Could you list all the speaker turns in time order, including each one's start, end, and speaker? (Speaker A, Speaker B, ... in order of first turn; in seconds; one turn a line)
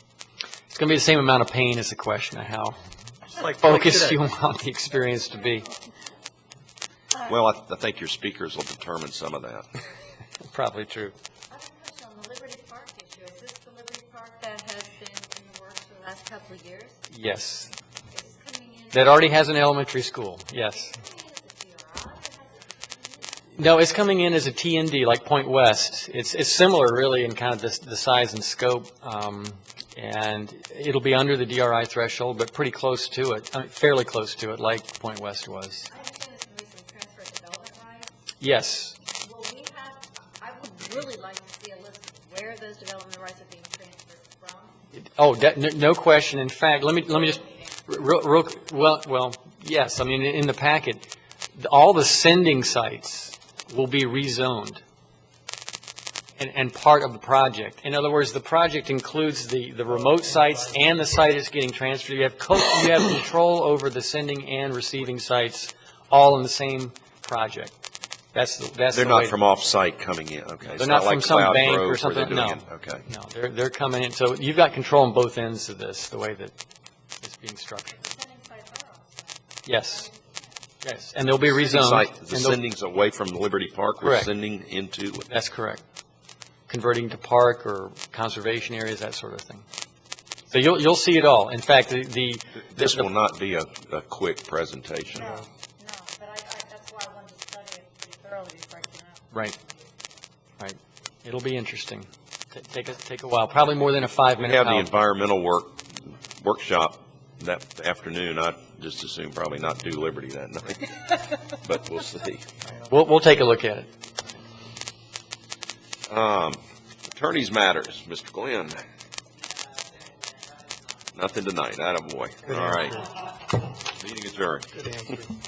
Speaker A: 0.7-2.8
Speaker B: 3.3-4.2
Speaker A: 3.6-5.7
Speaker C: 5.5-5.9
Speaker D: 7.2-9.7
Speaker A: 10.4-11.1
Speaker C: 11.5-17.0
Speaker A: 17.1-17.7
Speaker C: 18.1-19.3
Speaker A: 18.9-20.9
Speaker C: 20.7-23.5
Speaker A: 23.6-35.9
Speaker C: 35.9-38.1
Speaker A: 38.4-39.0
Speaker C: 39.2-44.9
Speaker A: 45.0-51.0
Speaker C: 46.9-47.9
Speaker A: 51.5-54.8
Speaker A: 56.4-67.7
Speaker A: 68.3-69.4
Speaker D: 68.9-73.0
Speaker A: 70.7-76.5
Speaker A: 77.2-78.0
Speaker C: 77.9-80.6
Speaker A: 79.6-80.1
Speaker A: 80.8-82.6
Speaker D: 81.5-85.3
Speaker A: 84.0-84.3
Speaker A: 85.3-85.8
Speaker A: 86.7-89.6
Speaker A: 90.5-93.1
Speaker D: 92.6-95.4
Speaker C: 95.1-99.3
Speaker A: 100.6-104.9
Speaker D: 104.4-112.5
Speaker A: 112.9-113.9
Speaker D: 116.1-118.8
Speaker D: 121.1-123.1
Speaker B: 122.5-123.0
Speaker D: 123.8-124.9
Speaker B: 124.8-125.3